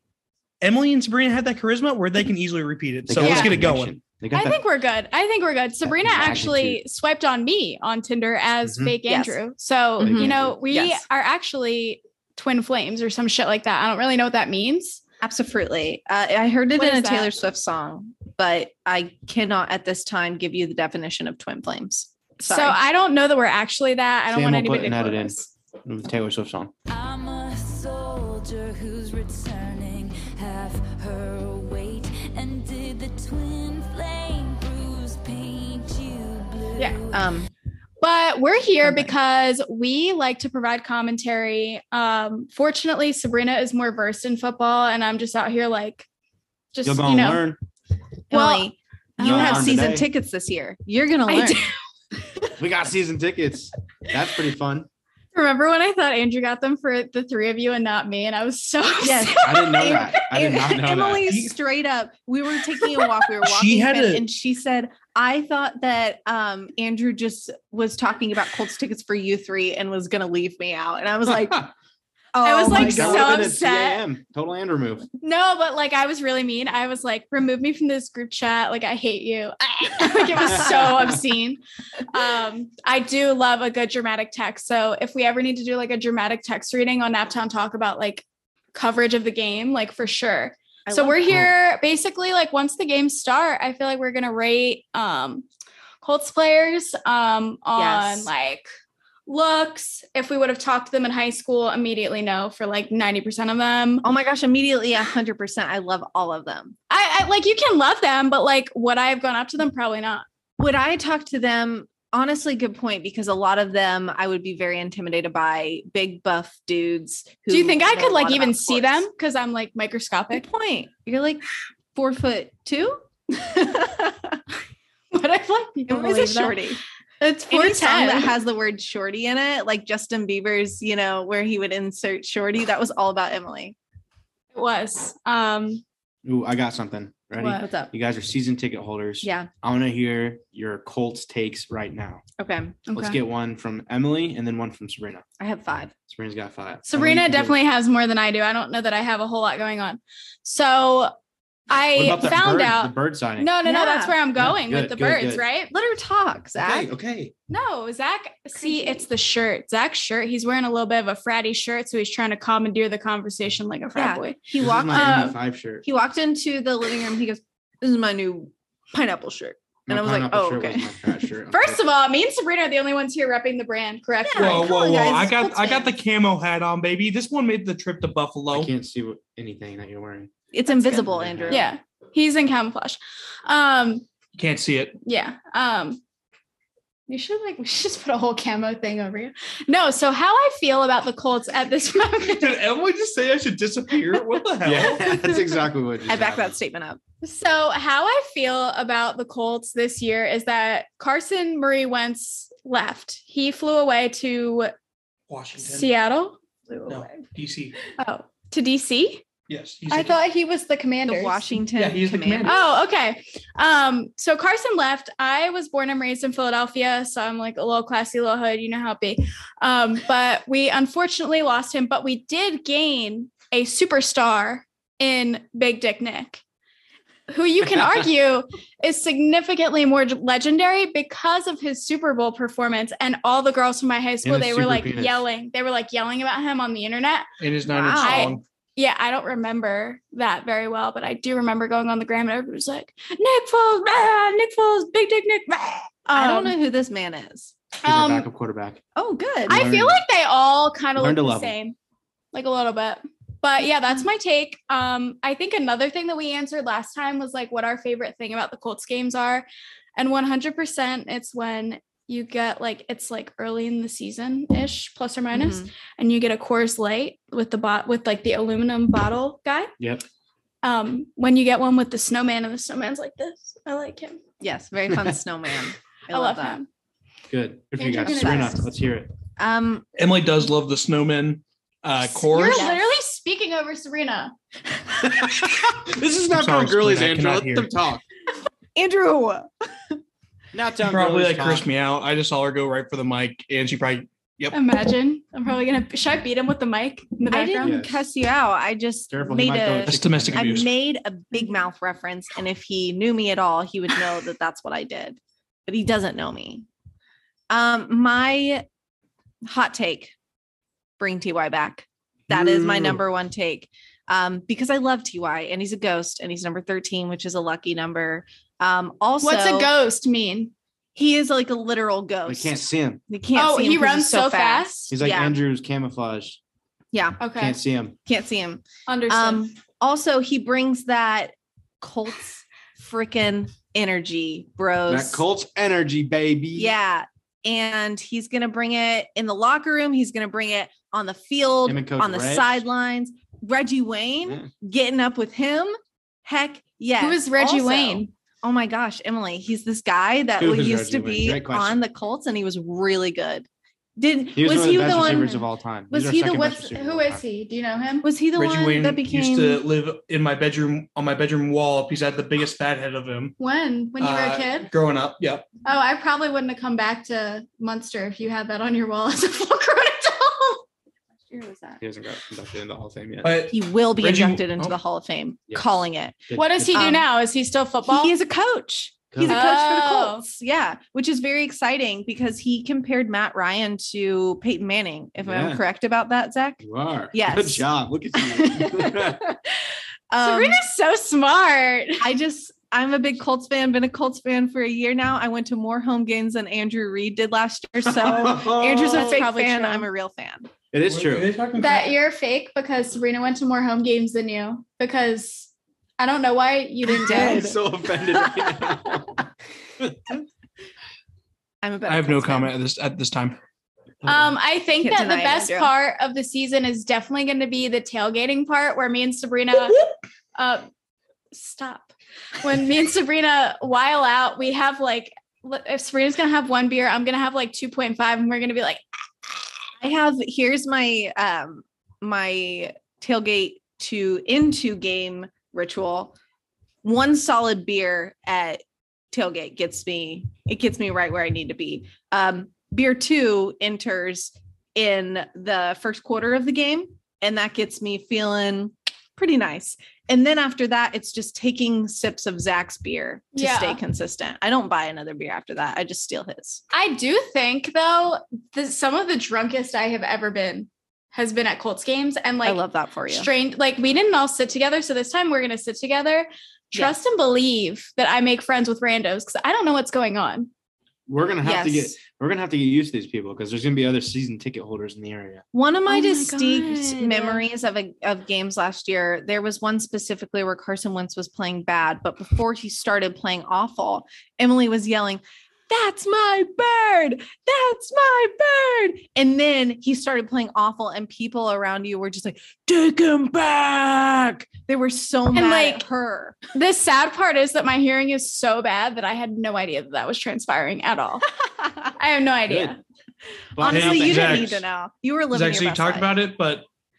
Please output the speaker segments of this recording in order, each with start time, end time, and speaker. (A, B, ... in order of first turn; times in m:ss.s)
0:00.6-0:03.9 A
0:03.1-0:04.6 B
0:03.2-0:03.5 C
0:04.3-0:15.0 C
0:05.8-0:06.8 B
0:08.6-0:08.9 B
0:09.0-0:09.4 D
0:10.0-0:11.0 D
0:10.0-0:10.6 B
0:15.2-0:22.8 D
0:16.8-0:17.3 C
0:22.4-0:25.5 C
0:24.3-0:26.7 B
0:26.9-0:37.3 E
0:37.1-0:37.5 D
0:38.0-0:46.1 C
0:38.8-0:39.1 D
0:46.7-0:47.4 C
0:46.8-0:47.6 B
0:48.3-0:51.6 D
0:48.3-0:49.8 C
0:49.2-0:50.1 B
0:51.3-0:51.7 C
0:52.6-0:54.9 B
0:55.3-1:00.0 C
0:59.0-1:11.7 D
0:59.4-1:01.4 B
1:03.4-1:04.2 A
1:12.3-1:13.5 D
1:12.4-1:14.0 C
1:12.7-1:15.1 B
1:15.2-1:35.4 C
1:20.5-1:20.9 D
1:30.8-1:31.5 D
1:36.0-1:38.7 C
1:37.7-1:38.3 D
1:39.3-1:44.0 C
1:44.0-1:46.8 D
1:46.9-1:50.2 C
1:50.6-1:59.0 D
1:57.5-2:00.4 C
2:00.3-2:01.4 D
2:01.9-2:04.4 D
2:05.1-2:06.6 C
2:05.9-2:06.8 D
2:07.2-2:08.3 C
2:07.5-2:13.8 D
2:14.5-2:15.8 C
2:16.2-2:22.2 B
2:17.4-2:17.9 D
2:19.2-2:19.5 D
2:22.4-2:22.8 D
2:22.9-2:23.2 C
2:22.9-2:25.2 B
2:25.4-2:25.9 D
2:26.1-2:27.6 B
2:26.8-2:31.1 C
2:31.7-2:35.7 C
2:31.9-2:33.5 B
2:33.6-2:34.2 D
2:34.4-2:35.4 B
2:35.7-2:36.9 D
2:36.5-2:37.3 B
2:37.5-2:44.4 C
2:38.6-2:39.1 D
2:43.9-2:51.1 D
2:44.6-2:45.8 B
2:44.9-2:45.4 C
2:49.9-2:51.8 B
2:51.5-2:54.7 C
2:54.2-2:55.9 D
2:54.4-2:58.7 A
2:58.5-3:01.6 B
3:00.5-3:01.7 D
3:01.5-3:04.0 C
3:04.3-3:05.0 A
3:05.0-3:06.0 C
3:07.1-3:12.6 C
3:12.2-3:15.2 A
3:14.6-3:16.5 B
3:16.1-3:17.0 D
3:17.2-3:24.7 C
3:25.3-3:25.9 A
3:25.6-3:26.9 C
3:26.9-3:27.8 A
3:27.9-3:29.2 C
3:29.5-3:30.2 A
3:29.9-3:31.6 C
3:31.0-3:32.7 D
3:31.8-3:32.6 A
3:32.4-3:46.4 C
3:47.3-3:57.3 C
3:54.2-3:55.2 B
3:57.4-3:58.4 A
3:57.7-3:58.4 D
3:58.0-4:06.5 C
4:06.1-4:07.5 D
4:07.8-4:08.8 B
4:07.8-4:08.2 C
4:08.9-4:09.6 D
4:09.4-4:10.0 B
4:09.5-4:11.8 C
4:11.0-4:11.5 B
4:12.3-4:29.7 C
4:25.3-4:25.7 D
4:29.8-4:30.0 B
4:30.6-4:34.2 C
4:34.4-4:36.6 D
4:36.1-4:36.7 C
4:37.3-4:39.1 B
4:37.8-4:38.7 C
4:38.0-4:38.6 D
4:39.4-4:39.8 D
4:40.0-4:42.7 A
4:42.1-4:44.3 C
4:42.3-4:42.8 D
4:45.0-4:48.0 B
4:46.3-4:47.7 A
4:48.7-4:49.9 D
4:50.5-4:51.6 B
4:50.8-4:54.6 A
4:54.5-4:57.8 C
4:57.3-5:06.6 D
4:57.6-4:58.0 B
4:59.1-5:00.7 B
4:59.8-5:00.7 A
5:07.5-5:08.6 D
5:09.4-5:10.1 D
5:11.0-5:19.7 D
5:12.3-5:13.0 B
5:19.2-5:20.5 C
5:20.9-5:25.4 D
5:22.2-5:23.0 B
5:23.3-5:24.9 C
5:24.9-5:26.4 B
5:26.9-5:27.2 D
5:27.2-5:27.6 C
5:27.4-5:28.0 B
5:28.0-5:35.2 D
5:28.9-5:29.5 C
5:34.9-5:36.7 B
5:36.5-5:56.5 D
5:41.6-5:42.6 B
5:47.0-5:48.1 C
5:50.4-5:51.8 B
5:54.3-5:57.2 B
5:54.8-5:55.4 C
5:56.2-5:58.1 C
5:58.0-5:59.6 D
5:58.3-6:03.3 A
6:03.4-6:04.7 C
6:04.0-6:05.4 A
6:05.6-6:10.6 C
6:11.3-6:11.8 C
6:11.8-6:13.3 B
6:13.2-6:14.8 A
6:13.5-6:17.0 D
6:15.5-6:17.0 B
6:16.4-6:18.1 C
6:17.9-6:30.6 D
6:19.1-6:19.5 B
6:19.2-6:20.2 C
6:25.2-6:25.6 B
6:26.6-6:29.2 B
6:30.2-6:32.0 C
6:32.0-6:40.5 D
6:37.8-6:39.2 B
6:38.7-6:39.9 C
6:40.7-6:41.3 B
6:40.8-6:41.9 A
6:41.6-6:47.5 C
6:46.8-6:47.6 D
6:47.0-6:49.2 B
6:48.2-6:48.8 D
6:51.6-6:52.6 D
6:51.9-6:53.4 A
6:54.0-6:59.8 C
6:54.8-6:55.7 D
7:00.3-7:00.7 C
7:01.3-7:08.8 C
7:09.8-7:16.2 D
7:16.8-7:36.6 D
7:33.4-7:33.8 C
7:36.7-7:50.5 C
7:42.4-7:43.3 D
7:51.1-7:55.4 B
7:51.4-7:52.0 D
7:55.5-8:16.4 D
7:55.8-7:57.4 C
8:15.3-8:15.8 C
8:16.5-8:21.3 C
8:21.4-8:21.9 D
8:22.0-8:22.8 C
8:22.5-8:22.8 B
8:23.6-8:24.6 B
8:23.6-8:26.1 D
8:23.6-8:24.6 A
8:25.3-8:26.6 A